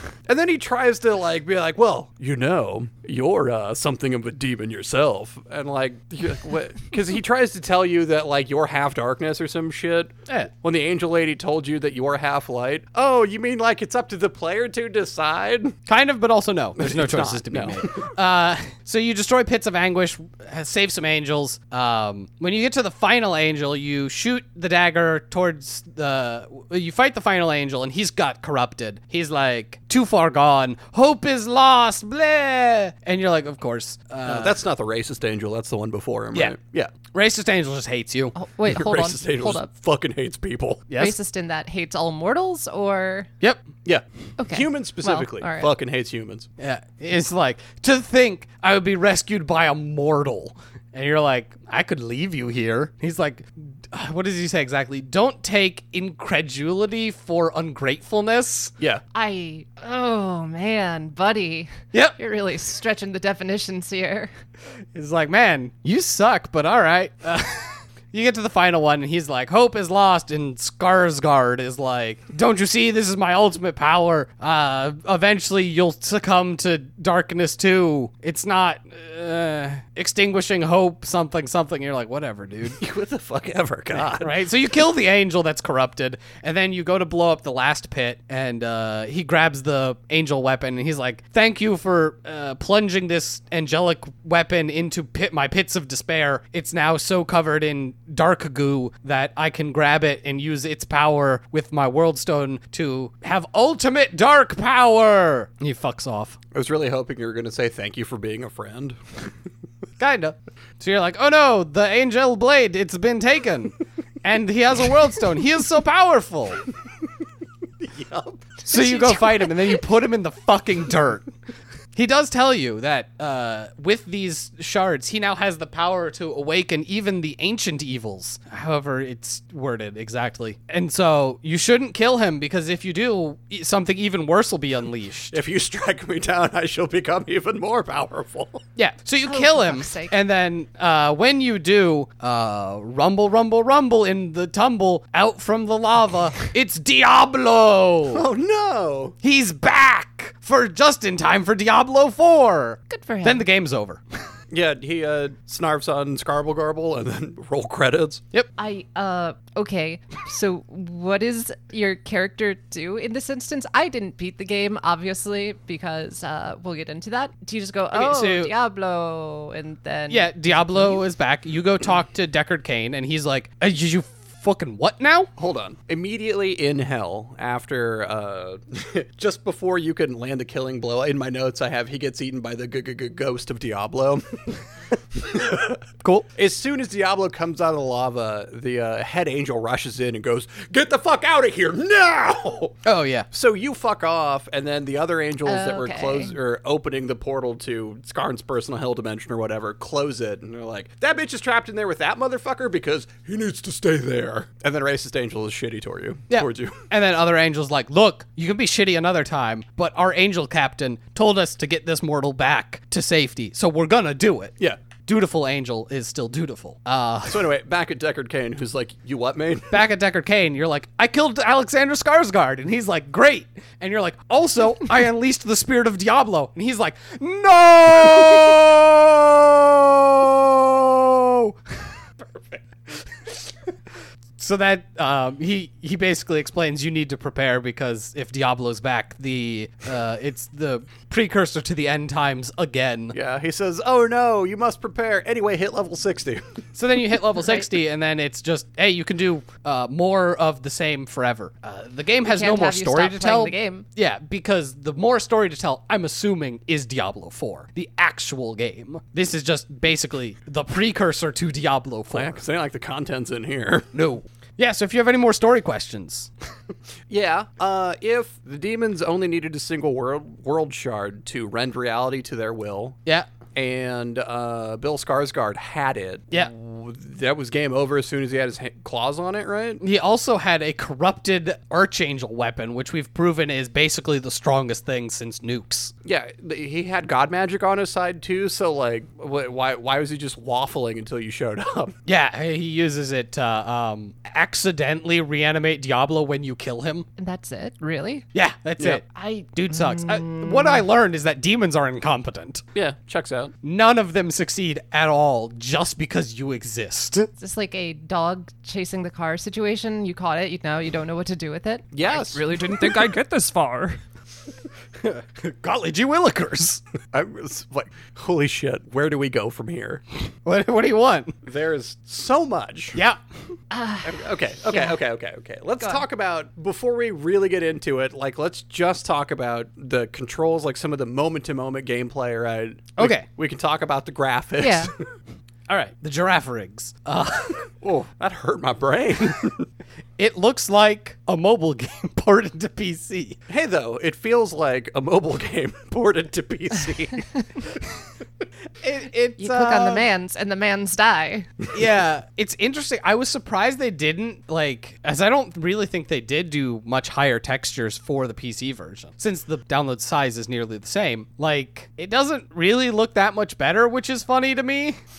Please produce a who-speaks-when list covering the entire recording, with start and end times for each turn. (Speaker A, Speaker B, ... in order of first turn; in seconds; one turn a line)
Speaker A: 0.3-15.8
Speaker B: 15.9-34.6
Speaker A: 16.8-18.1
Speaker A: 34.2-36.9
Speaker B: 37.1-38.4
Speaker C: 38.4-39.7
Speaker A: 38.7-40.9
Speaker B: 40.9-41.2
Speaker C: 41.0-43.3
Speaker A: 43.9-46.5
Speaker C: 44.4-45.7
Speaker B: 46.6-58.7
Speaker C: 59.1-64.3
Speaker B: 64.9-82.8
Speaker A: 82.8-84.4
Speaker B: 83.9-106.4
Speaker A: 106.5-109.0
Speaker B: 110.0-116.6
Speaker A: 117.8-118.5
Speaker C: 118.7-119.7
Speaker B: 118.7-121.3
Speaker B: 121.9-135.4
Speaker A: 135.3-138.6
Speaker B: 138.8-148.2
Speaker C: 139.3-140.2
Speaker A: 148.1-149.2
Speaker B: 149.2-154.0
Speaker C: 152.9-153.4
Speaker A: 154.5-158.2
Speaker C: 158.6-171.0
Speaker B: 167.9-168.5
Speaker B: 170.1-175.3
Speaker A: 175.4-184.5
Speaker A: 185.2-185.8
Speaker A: 186.3-192.8
Speaker B: 192.8-193.3
Speaker A: 193.3-206.9
Speaker C: 195.4-196.3
Speaker B: 206.3-217.5
Speaker A: 217.3-219.8
Speaker B: 219.7-231.6
Speaker B: 234.4-243.2
Speaker A: 243.1-246.6
Speaker B: 246.8-262.4
Speaker C: 252.2-253.8
Speaker A: 262.1-263.9
Speaker B: 263.9-266.3
Speaker A: 267.1-273.0
Speaker A: 273.6-279.8
Speaker B: 279.8-285.9
Speaker A: 286.1-291.9
Speaker B: 292.1-297.1
Speaker C: 297.2-298.3
Speaker B: 298.3-302.6
Speaker C: 299.1-300.9
Speaker A: 302.7-303.5
Speaker B: 303.6-307.3
Speaker C: 307.4-312.0
Speaker A: 311.9-312.9
Speaker D: 312.1-314.0
Speaker B: 315.0-316.8
Speaker A: 317.1-320.0
Speaker B: 320.4-321.4
Speaker A: 321.4-323.0
Speaker B: 322.9-323.2
Speaker C: 323.7-325.0
Speaker A: 324.0-334.9
Speaker B: 333.0-333.3
Speaker C: 334.6-334.9
Speaker B: 335.7-337.7
Speaker A: 337.8-339.7
Speaker B: 340.2-343.4
Speaker A: 343.5-347.3
Speaker B: 348.8-350.1
Speaker C: 349.4-351.5
Speaker B: 351.7-365.0